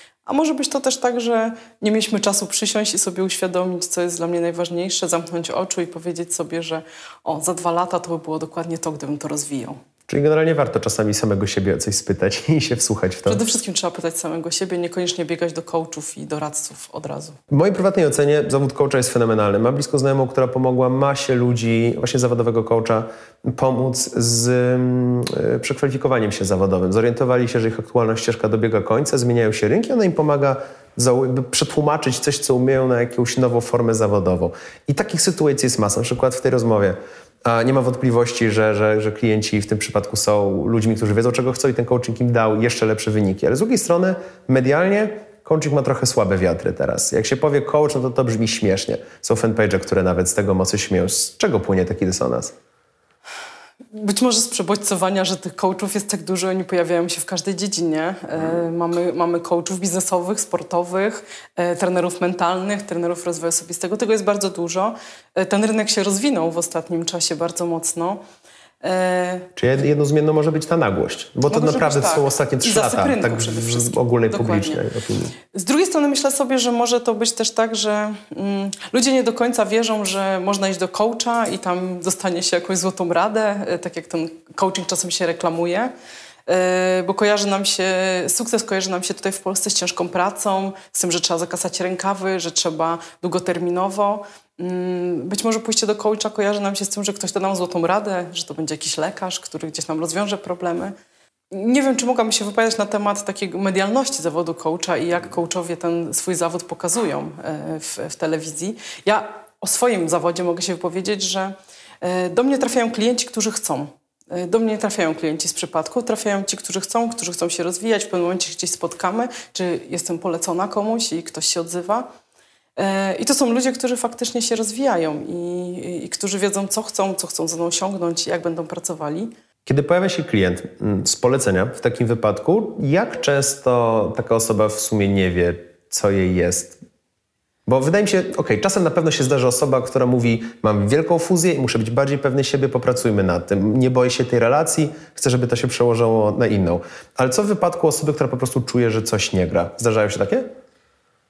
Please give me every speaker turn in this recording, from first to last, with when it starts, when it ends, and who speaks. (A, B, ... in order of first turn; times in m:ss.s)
0:00.2-0:09.8 A
0:10.1-0:13.4 B
0:13.2-0:17.4 A
0:17.5-0:52.5 B
0:53.9-1:08.2 A
1:08.8-1:09.5 A
1:09.6-1:15.4 B
1:11.5-1:14.8 A
1:15.5-1:25.9 A
1:26.5-1:40.9 A
1:41.5-2:02.1 A
2:02.8-2:09.3 A
2:09.6-2:16.8 B
2:17.7-2:30.4 B